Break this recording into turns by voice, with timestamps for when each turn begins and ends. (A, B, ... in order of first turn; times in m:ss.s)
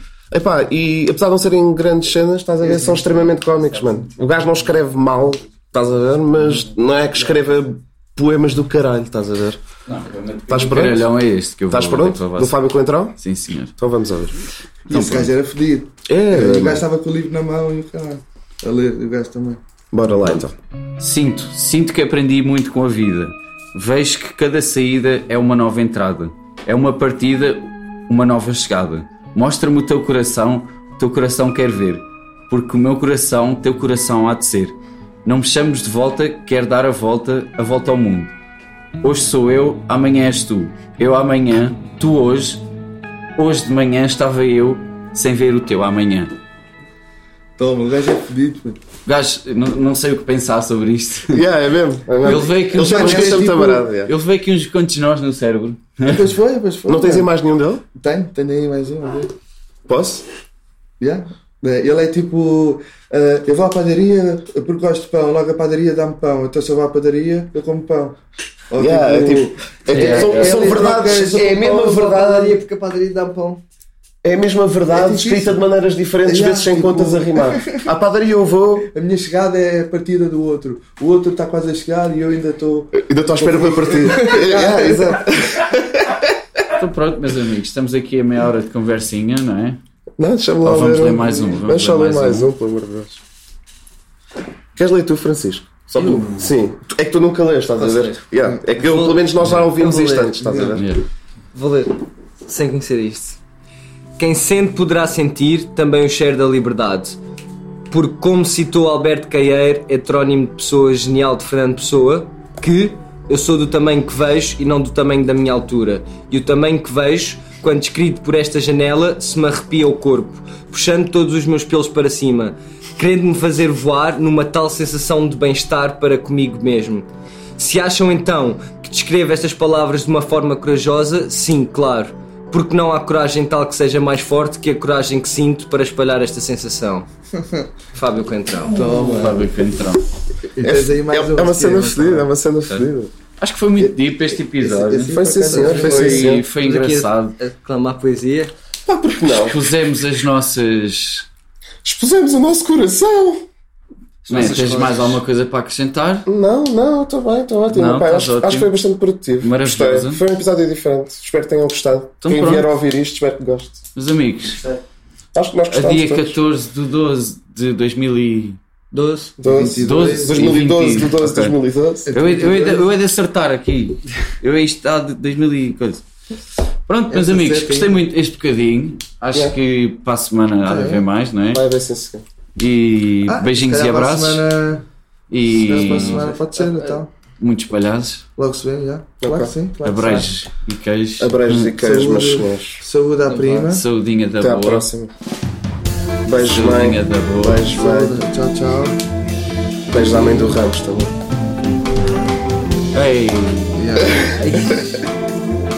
0:00.3-0:09.6 A
0:09.9-0:12.6 B
0:10.5-0:11.1 A
0:11.7-0:13.2 A
0:13.2-0:13.7 B
0:13.8-0:14.4 A
0:14.9-0:15.3 B
0:14.9-0:19.6 C
0:16.1-0:16.8 A
0:19.9-0:20.5 A
0:21.0-0:38.3 B
0:39.0-0:42.6 B
0:43.4-0:46.3 B
0:47.6-0:48.8 C
0:49.0-0:51.4 B
0:51.3-0:54.1 A
0:52.2-0:56.2 B
0:52.4-0:53.9 C
0:56.0-0:57.3 C
0:56.8-0:57.8 A
0:58.0-0:59.3 C
0:59.8-1:00.2 A
1:01.0-1:08.2 C
1:08.7-1:13.6 C
1:08.8-1:12.6 A
1:09.9-1:10.6 B
1:14.2-1:18.9 A
1:14.9-1:15.6 C
1:16.2-1:17.8 C
1:18.9-1:25.3 C
1:22.9-1:26.6 A
1:26.8-1:29.8 B
1:30.2-1:33.2 A
1:30.6-1:32.5 B
1:34.8-1:40.9 A
1:36.0-1:36.4 D
1:37.8-1:40.8 D
1:39.4-1:39.7 B
1:40.8-1:41.0 B
1:41.5-1:43.4 D
1:44.2-1:47.2 D
1:47.9-2:07.0 D
2:07.6-2:17.0 D
2:17.9-2:18.8 D
2:18.7-2:19.4 C
2:18.8-2:20.0 B
2:20.5-2:22.3 C
2:20.6-2:23.1 A
2:22.7-2:27.4 B
2:23.8-2:26.3 C
2:25.1-2:26.5 A
2:25.5-2:28.5 D
2:28.8-2:29.6 A
2:29.4-2:31.3 B
2:31.8-2:33.4 A
2:34.2-2:35.2 D
2:34.3-2:36.3 B
2:36.2-2:43.8 A
2:37.7-2:38.7 B
2:39.4-2:40.2 B
2:42.2-2:42.7 B
2:43.9-2:44.6 B
2:45.3-2:46.4 A
2:45.7-2:48.6 B
2:48.9-2:49.4 D
2:49.4-2:52.1 A
2:49.4-2:50.6 C
2:49.8-2:51.6 B
2:52.1-2:52.8 C
2:52.1-2:56.0 B
2:56.9-3:01.6 B
2:57.1-2:58.0 C
3:00.6-3:01.0 C
3:01.5-3:02.2 A
3:02.6-3:04.4 B
3:03.3-3:04.8 C
3:05.3-3:06.3 B
3:05.5-3:07.1 C
3:05.7-3:06.9 D
3:07.4-3:08.2 B
3:08.4-3:10.4 C
3:09.2-3:09.5 A
3:09.8-3:11.7 B
3:11.2-3:12.8 A
3:11.7-3:13.8 C
3:13.2-3:13.6 D
3:13.7-3:14.9 B
3:14.4-3:15.1 A
3:16.2-3:18.3 A
3:16.4-3:17.7 B
3:17.6-3:19.0 C
3:19.9-3:20.6 C
3:19.9-3:21.1 A
3:22.9-3:23.8 B
3:23.7-3:24.5 C
3:24.2-3:24.7 A
3:24.4-3:25.0 D